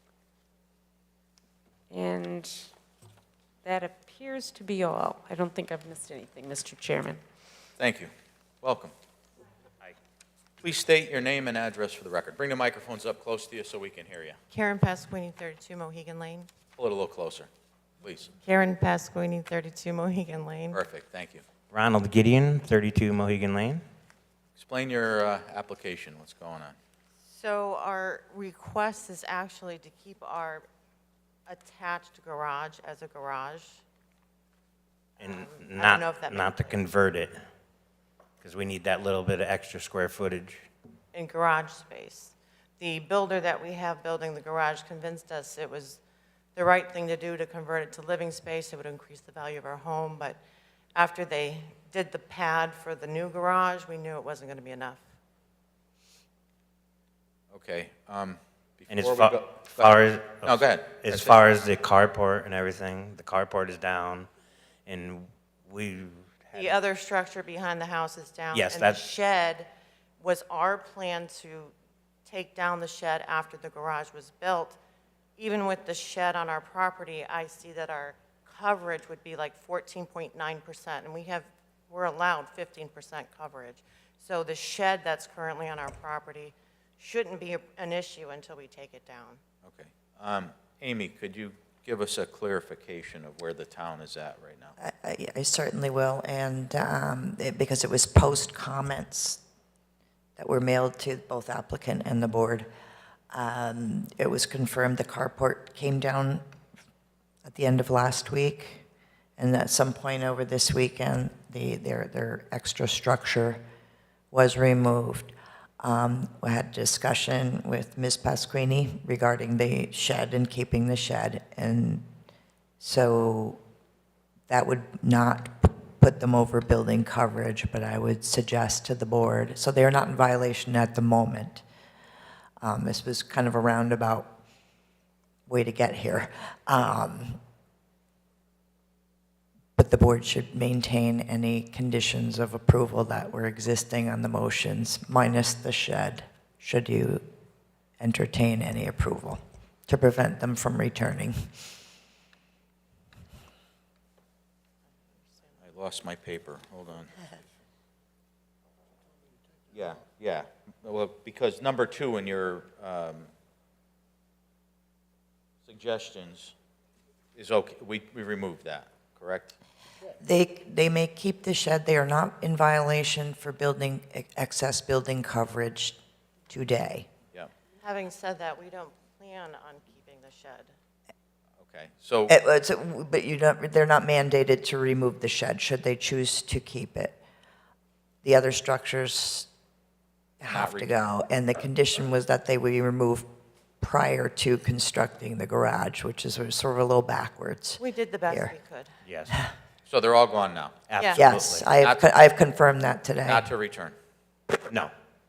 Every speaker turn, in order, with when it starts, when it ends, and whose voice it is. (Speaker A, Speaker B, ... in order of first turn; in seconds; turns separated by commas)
Speaker A: 1.9-2.7, Speaker A: 3.6-7.2, Speaker B: 7.8-8.1, Speaker B: 8.6-8.9, Speaker B: 10.6-14.4, Speaker C: 14.5-16.5, Speaker B: 16.8-17.5, Speaker B: 18.0-18.3, Speaker C: 18.4-20.8, Speaker B: 20.7-21.4, Speaker D: 21.7-23.8, Speaker B: 24.6-26.7, Speaker C: 27.3-30.7, Speaker C: 31.5-33.8, Speaker C: 35.2-36.8, Speaker D: 35.2-37.4, Speaker D: 38.4-40.7, Speaker C: 41.1-46.0, Speaker C: 46.5-50.4, Speaker C: 50.9-55.0, Speaker B: 57.5-61.4, Speaker D: 58.9-64.3, Speaker D: 64.8-66.8, Speaker C: 66.5-69.7, Speaker D: 68.5-69.0, Speaker C: 70.2-71.7, Speaker C: 72.2-74.8, Speaker C: 75.4-89.4, Speaker B: 89.6-94.7, Speaker E: 94.8-99.4, Speaker E: 100.4-102.7, Speaker E: 103.3-106.4, Speaker E: 107.4-108.8, Speaker E: 109.4-113.6, Speaker E: 114.3-122.0, Speaker E: 122.8-123.6, Speaker E: 124.5-131.6, Speaker E: 132.6-134.4, Speaker E: 135.5-137.4, Speaker E: 139.8-147.2, Speaker E: 148.0-151.6, Speaker B: 155.6-157.1, Speaker B: 159.7-163.3, Speaker B: 165.6-166.5, Speaker B: 167.3-169.5, Speaker E: 170.2-176.0, Speaker E: 176.5-177.1, Speaker C: 177.8-180.7, Speaker B: 181.6-182.3, Speaker E: 182.3-187.2, Speaker E: 188.2-189.5, Speaker E: 190.4-193.3, Speaker B: 190.5-190.9, Speaker E: 193.8-198.5, Speaker C: 197.8-198.9, Speaker D: 199.0-199.4, Speaker B: 199.9-200.8, Speaker D: 200.9-201.7, Speaker C: 200.9-201.2, Speaker E: 201.1-203.5, Speaker B: 201.8-202.1, Speaker B: 203.2-203.9